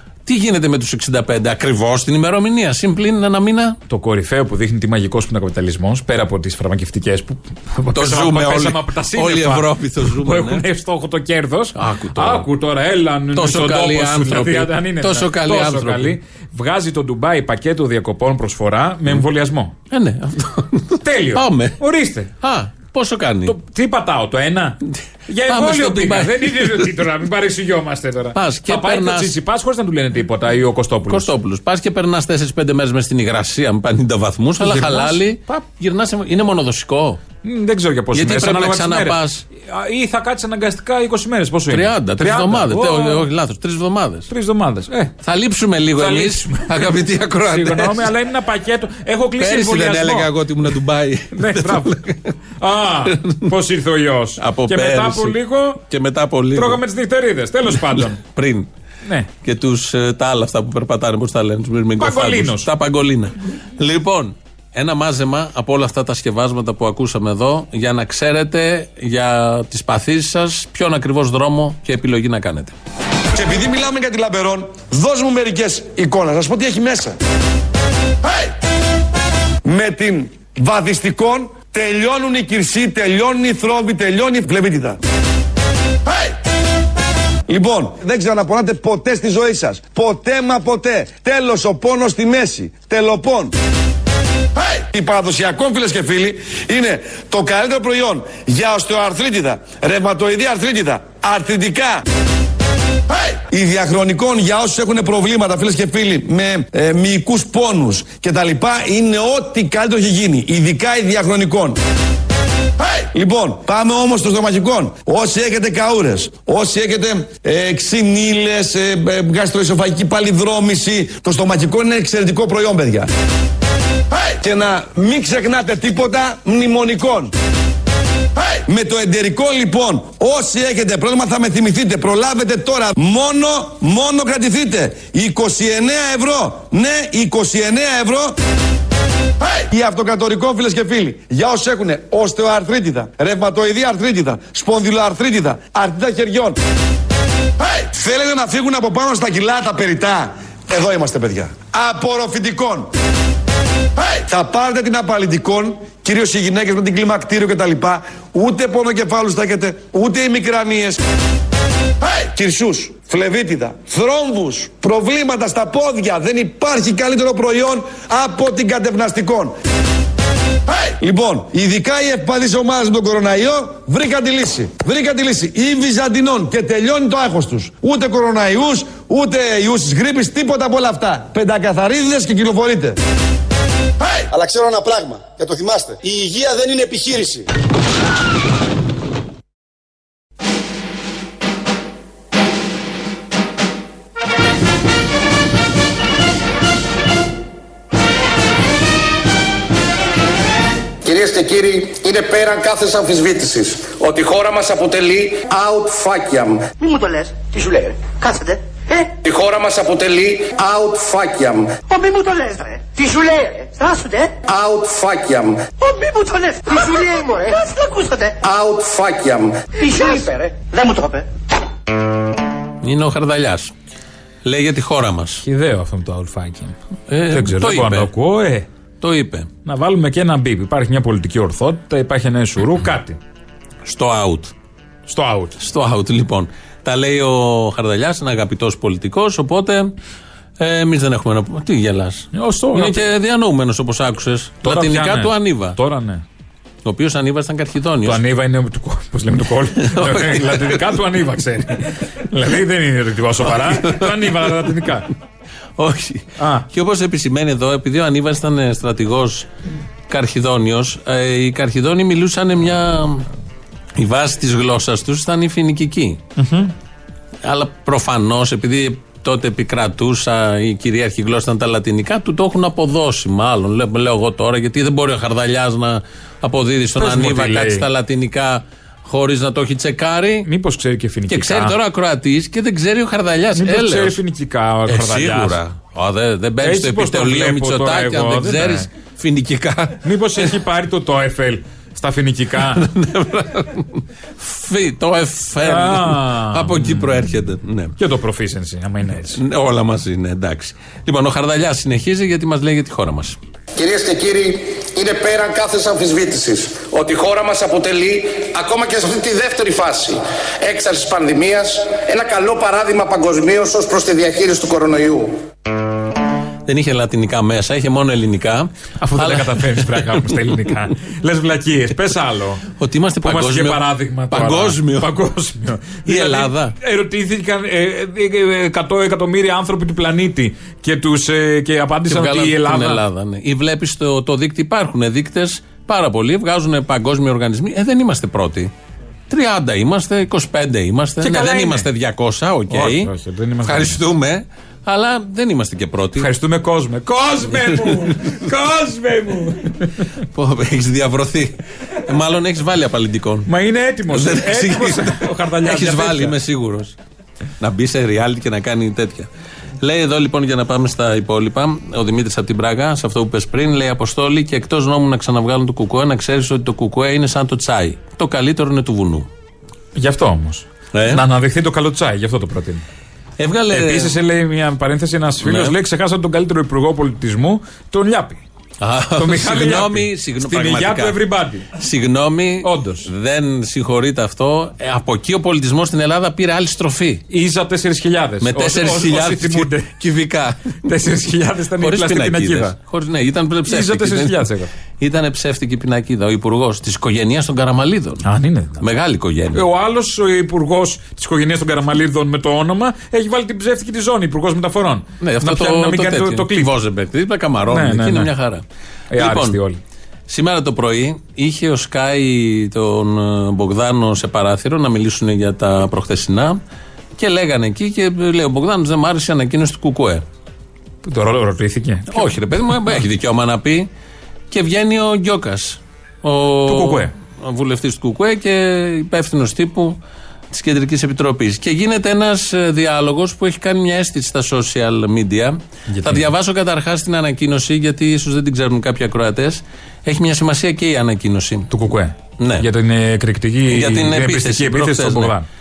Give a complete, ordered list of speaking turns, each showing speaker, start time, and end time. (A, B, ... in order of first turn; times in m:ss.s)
0:00.2-0:03.8 A
0:03.9-0:19.7 B
0:07.9-0:10.6 A
0:11.8-0:12.5 A
0:13.3-0:16.2 A
0:19.9-0:21.8 A
0:21.0-0:22.3 B
0:22.4-0:23.5 A
0:23.4-0:31.3 B
0:24.9-0:26.9 A
0:28.3-0:29.3 A
0:31.1-0:37.2 A
0:34.6-0:35.2 B
0:37.4-0:43.2 B
0:38.1-0:39.4 A
0:41.7-0:44.3 A
0:44.3-0:45.1 B
0:45.2-0:48.1 A
0:46.0-0:50.3 B
0:49.4-0:52.3 A
0:51.3-0:51.9 B
0:52.6-0:55.8 B
0:53.0-0:53.5 A
0:54.4-0:56.8 A
0:56.5-0:58.2 B
0:57.7-0:58.7 A
0:59.4-1:12.7 A
1:02.0-1:02.7 B
1:13.3-1:17.2 C
1:19.6-1:25.0 C
1:27.5-1:33.5 C
1:34.9-1:42.0 C
1:43.5-1:51.8 C
1:53.1-2:03.1 C
2:04.4-2:07.3 C
2:08.6-2:18.4 C
2:19.7-2:26.6 C
2:27.9-2:32.9 C
2:34.2-2:41.0 C
2:42.3-2:49.6 C
2:51.0-3:03.0 C
3:04.3-3:07.4 C
3:21.0-3:26.6 D
3:26.8-3:29.1 E
3:29.2-3:31.7 D
3:31.9-3:34.3 E
3:34.4-3:35.6 D
3:35.8-3:38.3 E
3:38.4-3:39.5 D
3:39.8-3:41.2 E
3:42.8-3:43.7 A
3:44.4-3:45.4 A
3:45.4-3:46.7 B
3:47.1-3:48.1 A
3:47.3-3:48.7 B
3:49.0-3:49.5 A
3:49.6-3:53.2 B
3:53.8-3:54.5 A
3:55.1-3:55.6 B
3:55.6-3:59.9 A
4:00.6-4:05.8 A
4:02.3-4:03.0 B
4:04.6-4:06.2 B
4:06.8-4:08.2 A
4:08.0-4:15.1 B
4:09.8-4:10.9 A
4:13.4-4:14.8 A
4:15.8-4:19.5 A
4:16.4-4:16.7 B
4:20.1-4:23.3 A
4:24.0-4:26.2 A
4:26.4-4:26.7 B
4:27.4-4:40.5 A
4:37.0-4:37.8 B
4:40.4-4:41.7 B
4:41.3-4:44.2 A
4:43.6-4:45.6 B
4:44.9-4:50.5 A
4:46.6-4:48.9 B
4:50.0-4:52.8 B
4:52.7-4:58.0 A
4:55.6-4:57.2 B
4:58.0-4:59.4 B
4:59.3-5:03.4 A
5:03.8-5:15.4 D
5:16.7-5:20.4 A
5:19.0-5:22.6 B
5:22.7-5:25.1 A
5:23.2-5:33.0 B
5:26.0-5:26.7 A
5:32.1-5:38.7 A
5:39.3-5:43.1 A
5:41.2-5:41.9 B
5:42.7-5:44.0 B
5:43.6-5:46.3 A
5:46.2-5:50.0 B
5:47.6-5:48.4 A
5:50.3-5:51.5 A
5:52.0-5:53.5 A
5:53.5-5:56.4 B
5:54.1-5:57.0 A
5:57.6-5:59.3 A
5:59.8-6:09.3 A
6:09.9-6:12.8 B
6:10.9-6:11.2 A
6:13.4-6:14.2 A
6:13.7-6:18.4 B
6:15.4-6:15.7 A
6:18.8-6:21.2 A
6:19.2-6:21.7 B
6:21.7-6:27.2 A
6:22.6-6:23.1 B
6:27.3-6:30.0 B
6:28.4-6:30.8 A
6:30.8-6:32.7 B
6:31.8-6:34.5 A
6:33.7-6:34.7 B
6:35.0-6:38.2 A
6:38.2-6:38.8 B
6:38.8-6:39.6 A
6:39.5-6:46.7 B
6:45.2-6:49.6 A
6:47.7-6:48.3 B
6:49.1-6:49.8 B
6:50.3-6:56.6 A
6:57.2-7:00.2 A
7:01.0-7:02.3 B
7:02.1-7:03.9 A
7:04.5-7:10.0 A
7:06.6-7:07.1 B
7:10.5-7:21.7 A
7:15.9-7:16.2 B
7:21.7-7:25.4 B
7:22.4-7:22.6 A
7:23.7-7:25.3 A